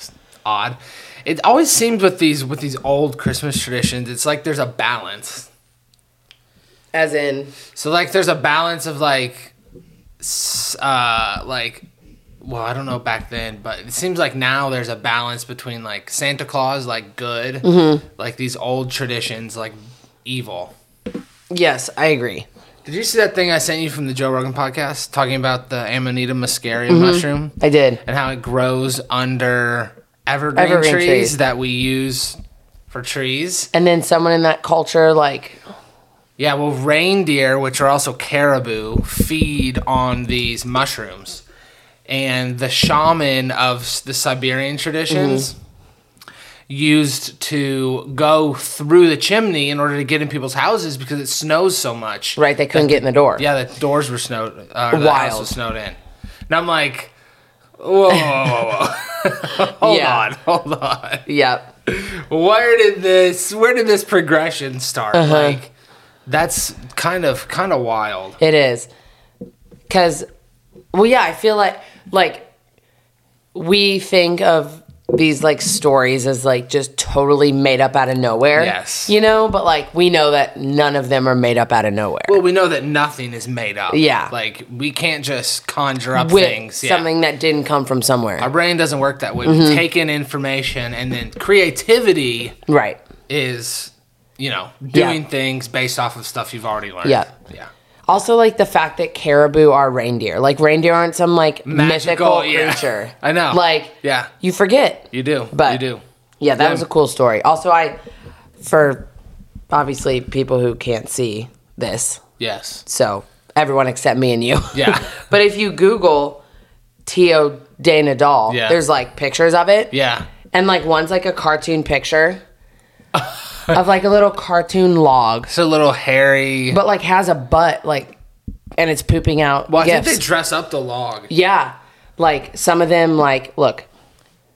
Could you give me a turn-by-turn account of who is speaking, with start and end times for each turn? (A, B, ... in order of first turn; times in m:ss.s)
0:00.4-0:05.5 A
0:06.9-0:07.5 B
0:07.8-0:09.5 A
0:10.2-0:11.8 A
0:12.4-0:20.7 A
0:17.6-0:18.0 B
0:21.5-0:22.5 B
0:22.8-0:32.4 A
0:26.9-0:28.0 B
0:30.6-0:31.4 B
0:32.9-0:33.7 A
0:33.7-0:35.6 B
0:36.4-0:41.4 A
0:42.1-0:45.5 A
0:45.1-0:45.5 B
0:46.7-0:56.0 A
0:52.4-0:53.4 B
0:54.9-0:55.5 B
0:56.5-0:57.1 A
0:57.8-1:01.2 A
0:59.8-1:00.3 B
1:01.3-1:01.7 B
1:01.8-1:05.7 A
1:05.1-1:05.6 B
1:06.2-1:08.4 A
1:08.4-1:08.9 B
1:09.9-1:10.2 B
1:10.9-1:12.5 B
1:13.5-1:22.4 B
1:18.6-1:19.1 A
1:22.3-1:27.1 A
1:23.9-1:24.3 B
1:26.1-1:28.5 B
1:28.4-1:32.6 A
1:29.4-1:29.8 B
1:32.7-1:33.0 B
1:33.3-1:37.7 A
1:34.9-1:35.2 B
1:37.0-1:37.3 B
1:38.1-1:45.8 B
1:41.6-1:44.3 A
1:45.1-1:46.0 A
1:46.4-1:48.0 B
1:46.6-1:46.8 A
1:48.6-1:49.1 B
1:49.7-1:52.2 B
1:52.4-1:52.8 A
1:52.8-1:56.4 B
1:54.7-1:55.2 A
1:57.0-1:59.9 B
1:58.5-1:58.8 A
1:59.9-2:00.3 A
2:00.5-2:02.4 B
2:03.1-2:03.8 A
2:03.7-2:05.5 B
2:05.5-2:06.8 A
2:06.7-2:08.2 B
2:08.8-2:10.2 B
2:09.7-2:11.3 A
2:11.3-2:13.9 B